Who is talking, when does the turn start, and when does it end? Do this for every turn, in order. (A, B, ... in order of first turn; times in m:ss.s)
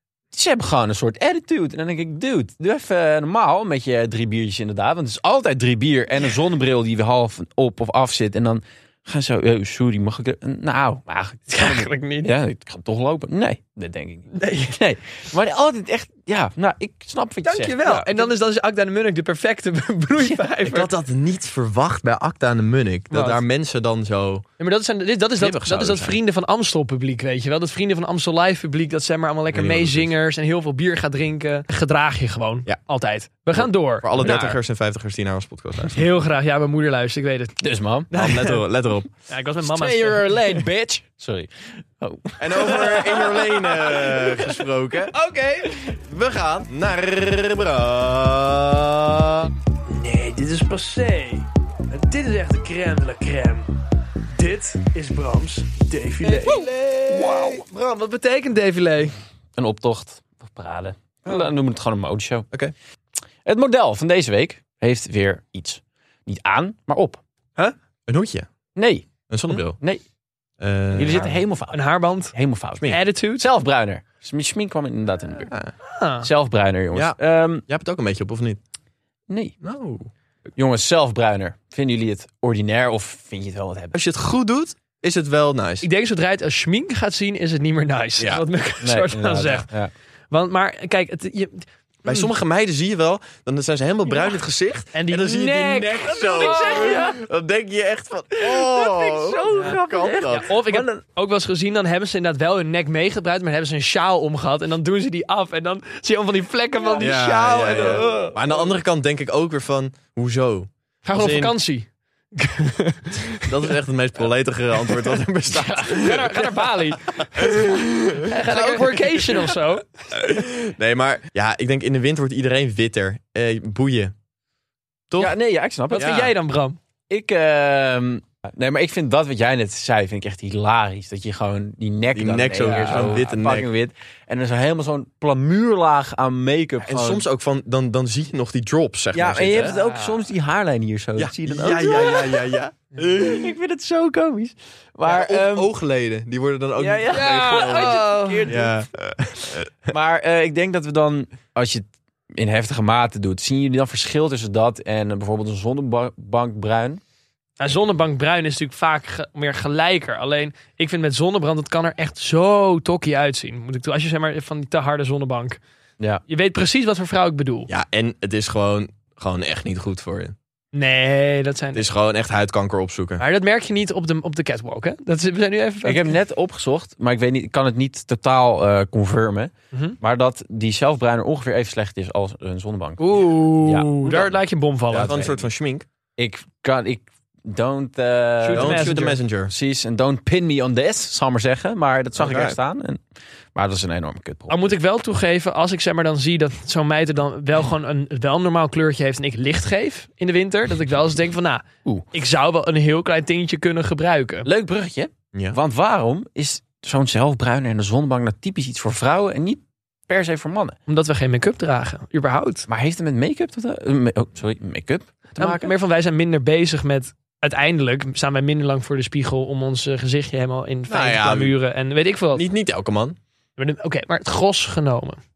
0:00.3-0:18.2 A
0:11.5-0:12.3 B
0:14.3-0:14.7 B
0:17.4-0:20.9 B
0:20.6-0:24.4 C
0:23.1-0:23.4 B
0:24.6-0:34.6 B
0:25.4-0:26.2 C
0:29.5-0:30.1 C
0:33.5-0:36.0 C
0:35.9-0:37.6 B
0:37.6-0:38.1 A
0:38.1-0:38.6 B
0:38.1-0:39.1 C
0:39.3-0:40.6 B
0:39.6-0:44.4 A
0:42.4-0:45.1 C
0:45.1-0:45.8 B
0:46.0-0:49.5 C
0:49.9-0:53.7 B
0:54.3-0:59.1 B
0:56.2-0:57.4 A
0:59.6-1:02.5 A
1:03.4-1:07.2 A
1:08.1-1:08.5 C
1:08.7-1:10.0 A
1:09.3-1:09.8 C
1:10.6-1:11.4 C
1:10.9-1:15.5 A
1:11.7-1:12.3 B
1:12.8-1:13.4 B
1:15.8-1:16.3 B
1:16.2-1:17.6 A
1:16.9-1:18.6 C
1:19.3-1:19.6 A
1:19.6-1:20.1 C
1:20.6-1:24.0 A
1:23.9-1:25.9 C
1:25.8-1:29.7 B
1:28.2-1:28.4 C
1:28.8-1:29.9 A
1:30.3-1:32.3 B
1:32.0-1:40.5 C
1:34.9-1:37.1 B
1:36.1-1:37.2 A
1:38.4-1:41.0 A
1:40.4-1:48.5 B
1:46.9-1:51.6 C
1:51.0-1:53.7 B
1:53.4-1:59.6 C
1:55.5-2:00.2 B
2:00.1-2:04.1 C
2:05.1-2:05.3 C
2:05.2-2:06.2 A
2:05.9-2:06.8 B
2:05.9-2:06.3 C
2:07.1-2:17.3 A
2:12.1-2:13.7 C
2:16.8-2:19.8 C
2:19.1-2:22.4 A
2:19.6-2:20.2 B
2:21.2-2:23.5 C
2:23.0-2:25.7 A
2:25.0-2:29.9 C
2:26.8-2:28.7 A
2:27.1-2:28.6 B
2:29.9-2:37.0 A
2:37.6-2:45.6 B
2:46.3-2:47.7 B
2:47.7-2:50.3 C
2:50.7-2:51.9 B
2:51.7-2:53.2 C
2:53.2-2:56.1 B
2:55.8-3:03.0 A
2:59.7-3:00.0 B
3:03.0-3:05.2 B
3:03.6-3:04.4 A
3:04.9-3:05.4 A
3:04.9-3:05.8 C
3:06.2-3:13.0 A
3:08.4-3:09.2 B
3:08.6-3:09.5 C
3:12.2-3:12.6 C
3:13.5-3:14.7 A
3:14.5-3:24.5 B
3:24.4-3:30.8 A
3:30.9-3:32.7 B
3:32.7-3:35.7 A
3:35.4-3:42.4 B
3:40.9-3:41.6 C
3:42.3-3:43.2 C
3:43.6-3:45.2 B